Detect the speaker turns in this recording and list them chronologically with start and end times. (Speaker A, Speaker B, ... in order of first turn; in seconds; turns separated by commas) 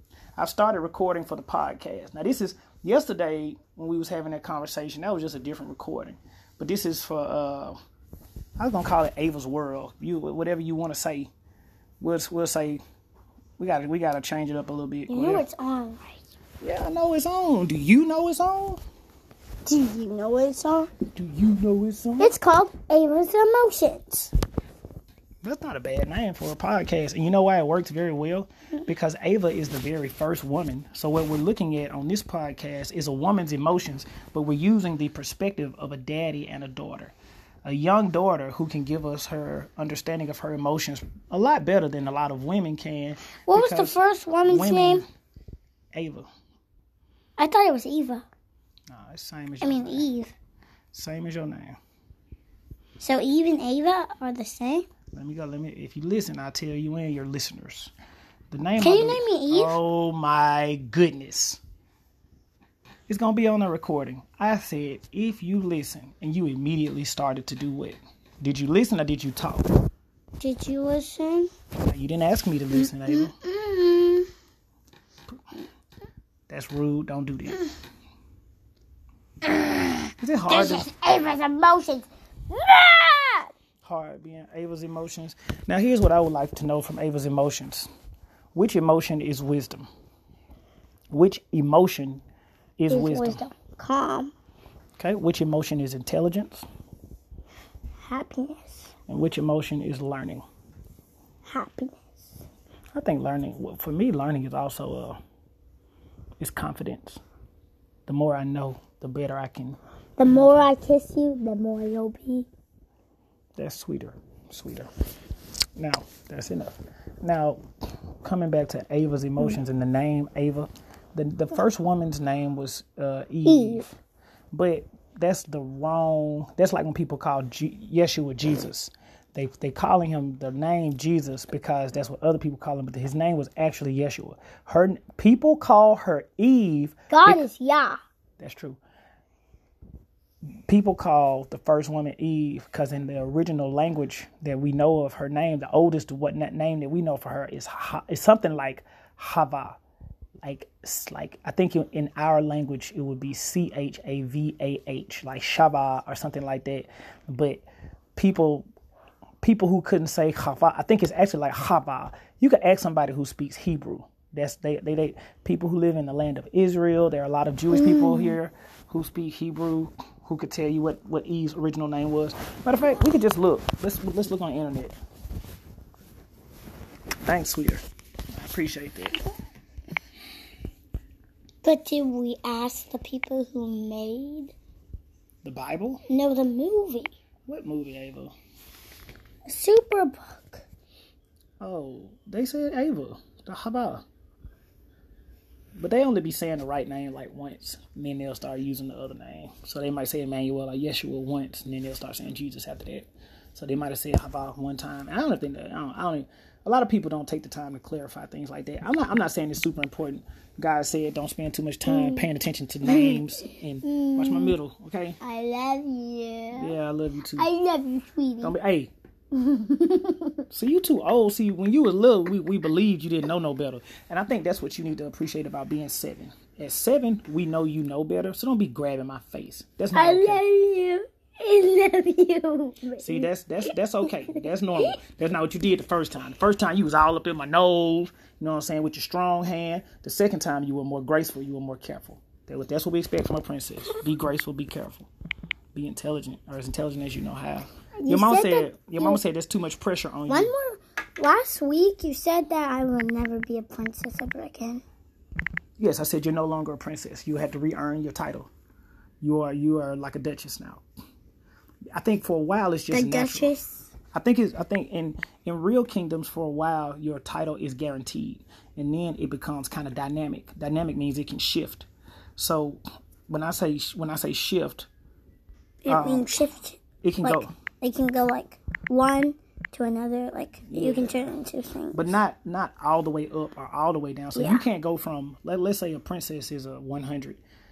Speaker A: 0.4-7.8, Speaker A: 8.6-11.3, Speaker A: 12.0-12.8, Speaker A: 13.6-15.4, Speaker B: 15.1-16.2, Speaker A: 16.6-18.8, Speaker B: 19.7-20.9, Speaker A: 21.1-22.3, Speaker B: 22.2-24.3, Speaker A: 25.4-37.1, Speaker A: 37.6-45.1, Speaker B: 43.5-45.0, Speaker A: 45.9-46.3, Speaker B: 47.4-48.2, Speaker A: 48.9-50.1, Speaker B: 49.6-50.3, Speaker A: 50.9-51.8, Speaker B: 53.0-54.9, Speaker A: 55.1-57.9, Speaker A: 58.5-61.6, Speaker B: 58.8-59.8, Speaker A: 63.1-69.7, Speaker B: 70.4-71.5, Speaker A: 71.9-73.3, Speaker B: 72.8-74.3, Speaker A: 76.5-77.7, Speaker B: 79.4-83.5, Speaker A: 80.2-80.9, Speaker A: 83.8-87.9, Speaker A: 88.5-89.9, Speaker A: 91.1-92.2, Speaker A: 92.8-93.4, Speaker B: 92.9-94.3, Speaker A: 95.0-96.7, Speaker B: 98.0-98.9, Speaker A: 99.1-100.5, Speaker B: 101.5-102.4, Speaker A: 102.9-105.2, Speaker A: 106.4-107.2, Speaker A: 108.1-110.7, Speaker B: 110.2-112.5, Speaker A: 113.6-114.9, Speaker A: 115.8-117.6, Speaker A: 118.2-124.0, Speaker B: 123.5-123.8, Speaker A: 124.5-137.5, Speaker B: 137.1-138.0, Speaker A: 138.4-138.8, Speaker A: 140.7-149.8, Speaker A: 150.4-157.6, Speaker A: 158.2-158.7, Speaker A: 159.4-175.0, Speaker B: 167.7-168.4, Speaker A: 177.2-179.2, Speaker B: 181.6-184.5, Speaker A: 185.4-186.0, Speaker B: 186.1-187.1, Speaker A: 187.5-188.3, Speaker B: 189.5-190.6, Speaker A: 191.6-194.0, Speaker A: 195.8-215.2, Speaker B: 211.9-212.3, Speaker B: 212.8-214.6, Speaker B: 215.2-216.8, Speaker A: 216.5-217.5, Speaker B: 217.4-218.5, Speaker A: 218.4-218.9, Speaker B: 219.3-220.4, Speaker A: 220.5-230.4, Speaker B: 229.9-234.9, Speaker A: 233.0-245.1, Speaker A: 245.7-250.5, Speaker B: 248.0-249.2, Speaker B: 250.3-254.8, Speaker A: 255.8-258.5, Speaker A: 259.2-260.8, Speaker A: 261.9-263.5, Speaker B: 262.9-263.9, Speaker A: 264.1-274.9, Speaker B: 275.8-282.1, Speaker A: 275.9-276.4, Speaker A: 277.0-277.5, Speaker A: 280.7-281.2, Speaker A: 281.9-287.4, Speaker B: 284.4-284.6